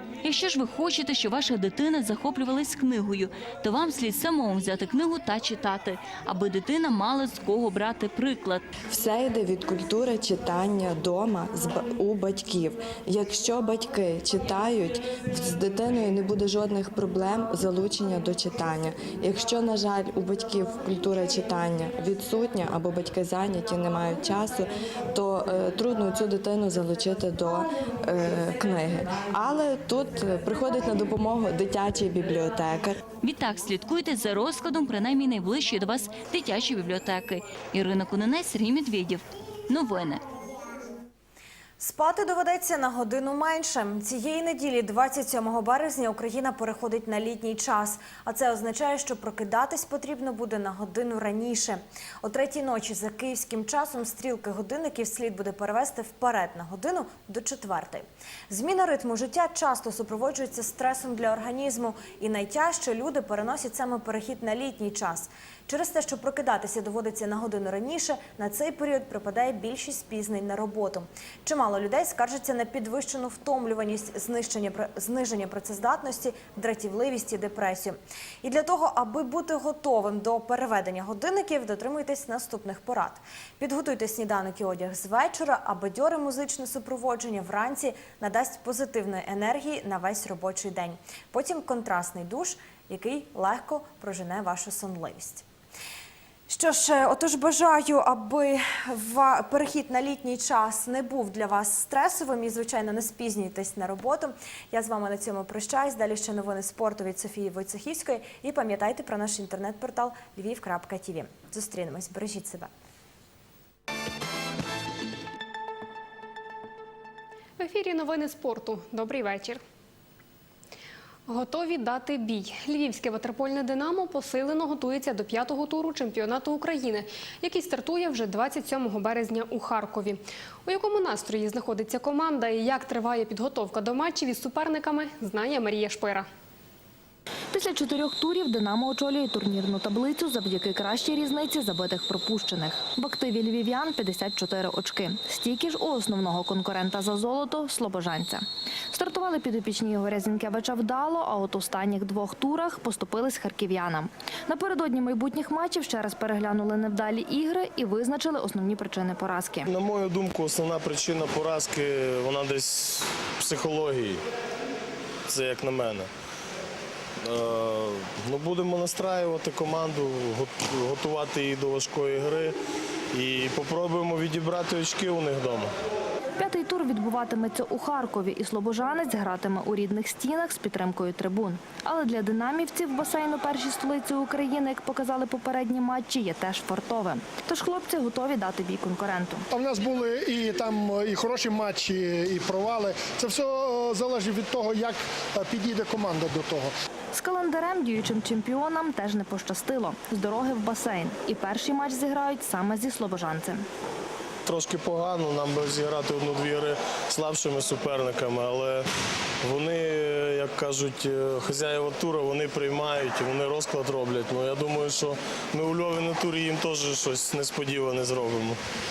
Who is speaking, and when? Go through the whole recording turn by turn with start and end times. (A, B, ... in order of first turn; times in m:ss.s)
0:00.2-0:08.6 A
0:08.9-0:33.0 B
0:33.2-0:40.2 A
0:41.8-1:35.4 C
1:36.5-1:52.7 C
1:57.6-1:59.6 D
2:01.3-2:16.3 D
2:17.5-2:39.7 E
2:39.7-2:44.2 F
2:45.3-2:46.1 F
2:47.2-2:52.5 F
2:53.1-2:55.7 F
2:56.4-3:09.4 E
3:09.5-3:16.7 G
3:17.1-3:23.6 E
3:24.4-3:28.8 F
3:29.4-3:38.6 F